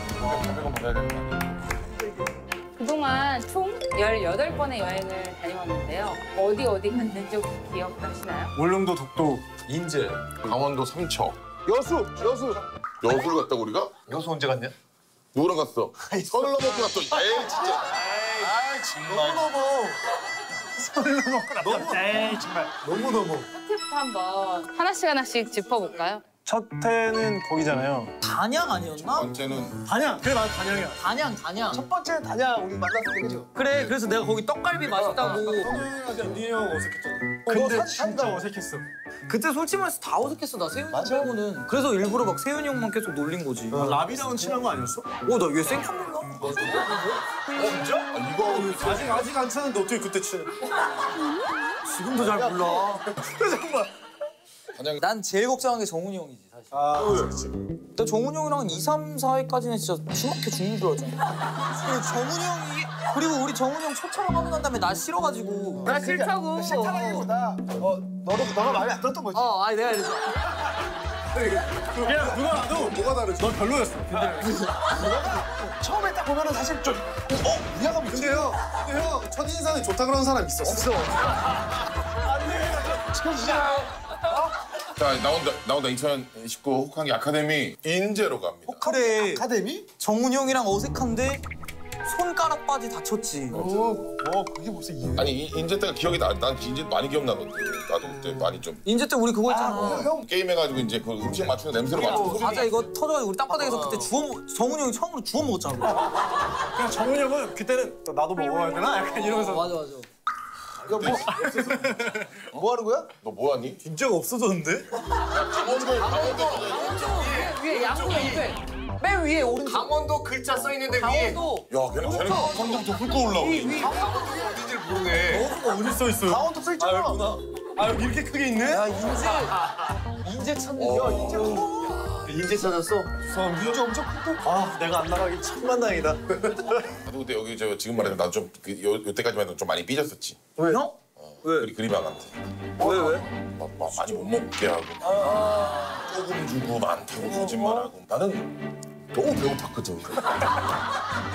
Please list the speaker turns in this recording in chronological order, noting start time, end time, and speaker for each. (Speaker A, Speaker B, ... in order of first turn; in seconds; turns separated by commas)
Speaker A: 0.1-1.8, Speaker B: 2.7-8.5, Speaker C: 8.5-9.6, Speaker D: 9.7-10.3, Speaker A: 10.4-11.4, Speaker E: 11.7-12.6, Speaker A: 13.0-14.0, Speaker D: 14.1-14.7, Speaker E: 14.2-14.6, Speaker A: 15.3-19.3, Speaker E: 16.1-16.9, Speaker E: 19.1-20.0, Speaker C: 20.7-22.8, Speaker E: 21.6-22.1, Speaker E: 22.8-23.5, Speaker B: 23.5-26.2, Speaker C: 26.4-28.1, Speaker F: 28.2-29.3, Speaker A: 28.9-29.8, Speaker C: 29.8-31.0, Speaker F: 30.9-31.8, Speaker E: 31.7-33.5, Speaker F: 33.5-35.7, Speaker C: 34.9-38.8, Speaker E: 37.5-38.4, Speaker F: 39.3-44.0, Speaker E: 40.9-41.3, Speaker E: 43.7-44.1, Speaker C: 43.7-45.1, Speaker F: 45.2-47.1, Speaker C: 46.4-50.8, Speaker A: 47.9-49.3, Speaker F: 51.8-53.1, Speaker C: 52.3-53.9, Speaker A: 54.7-55.0, Speaker F: 55.0-57.2, Speaker C: 56.7-57.5, Speaker F: 57.9-65.9, Speaker E: 65.8-69.5, Speaker B: 65.8-66.8, Speaker F: 66.7-67.2, Speaker F: 69.3-70.5, Speaker C: 71.5-74.6, Speaker E: 74.7-78.7, Speaker C: 78.0-81.0, Speaker E: 80.6-81.3, Speaker C: 82.3-83.1, Speaker E: 82.4-84.5, Speaker A: 83.4-83.9, Speaker A: 84.9-88.8, Speaker E: 88.7-89.9, Speaker F: 88.8-89.5, Speaker F: 90.0-91.4, Speaker F: 92.0-93.6, Speaker E: 93.5-95.3, Speaker A: 95.2-98.8, Speaker F: 98.8-100.1, Speaker E: 99.5-100.3, Speaker A: 100.1-102.8, Speaker C: 101.9-102.4, Speaker F: 102.1-106.0, Speaker E: 103.7-104.0, Speaker C: 106.6-109.7, Speaker F: 109.1-110.1, Speaker E: 110.8-111.3, Speaker A: 110.9-111.4, Speaker C: 111.1-112.5, Speaker E: 112.5-113.1, Speaker A: 113.2-113.8, Speaker C: 113.8-115.1, Speaker A: 115.1-117.4, Speaker F: 115.6-120.1, Speaker D: 116.2-118.5, Speaker B: 116.8-118.6, Speaker D: 119.7-121.4, Speaker F: 120.8-122.8, Speaker A: 121.7-124.1, Speaker F: 123.3-124.7, Speaker D: 123.6-125.5, Speaker C: 125.2-128.9, Speaker E: 126.3-127.3, Speaker F: 128.7-133.1, Speaker A: 130.7-131.7, Speaker E: 130.9-131.9, Speaker D: 132.3-133.1, Speaker C: 133.2-133.8, Speaker E: 133.4-134.4, Speaker C: 134.4-137.0, Speaker A: 137.0-140.5, Speaker F: 140.6-141.7, Speaker A: 141.2-148.6, Speaker F: 142.8-143.2, Speaker F: 145.1-146.0, Speaker E: 147.4-147.7, Speaker A: 149.1-150.6